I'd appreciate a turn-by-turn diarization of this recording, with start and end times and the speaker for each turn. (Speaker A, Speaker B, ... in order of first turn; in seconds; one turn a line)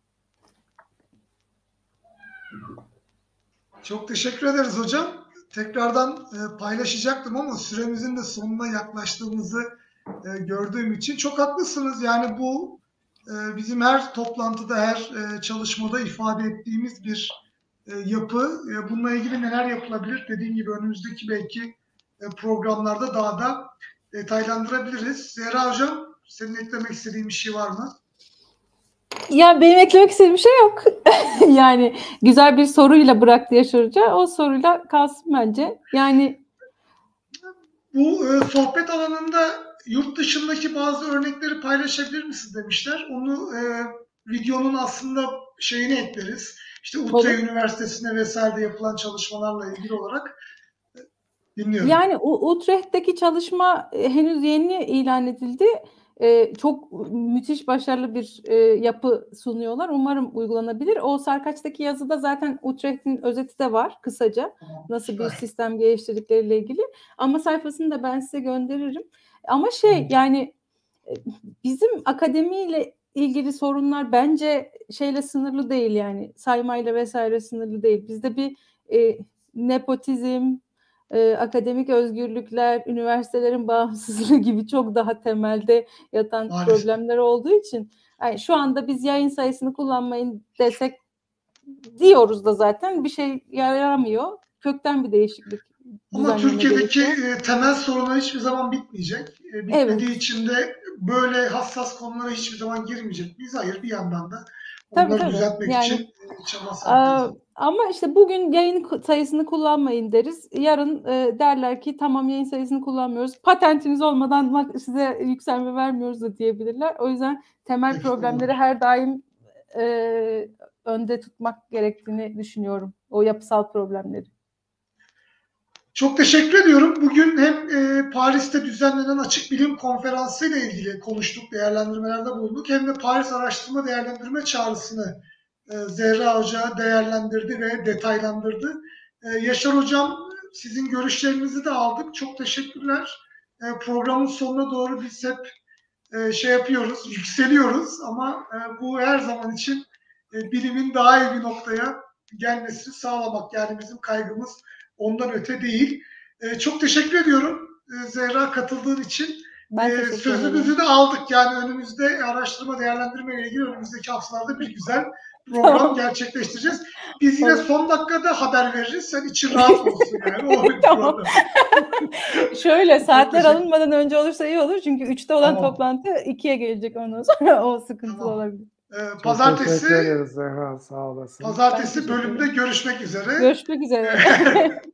Speaker A: 3.8-9.7
Speaker A: 10.2-28.0
Speaker B: 29.3-36.4
Speaker A: 37.9-50.4
Speaker B: 47.1-47.4
Speaker A: 51.5-52.0
Speaker B: 51.8-70.5
Speaker A: 64.7-65.4
Speaker B: 71.1-80.6
Speaker B: 81.1-91.0
Speaker A: 86.5-86.9
Speaker B: 92.0-97.2
Speaker A: 96.1-107.3
Speaker B: 99.7-100.1
Speaker B: 104.9-106.0
Speaker B: 106.8-124.3
Speaker A: 117.9-118.5
Speaker A: 125.9-145.5
Speaker A: 146.1-171.3
Speaker B: 159.7-160.7
Speaker B: 165.6-166.0
Speaker B: 167.4-167.7
Speaker B: 169.5-178.7
Speaker A: 173.0-173.6
Speaker A: 175.4-175.8
Speaker A: 178.1-178.4
Speaker A: 178.9-180.1
Speaker C: 179.2-181.6
Speaker A: 181.4-183.5
Speaker B: 181.7-182.5
Speaker B: 183.4-184.8
Speaker A: 184.1-184.8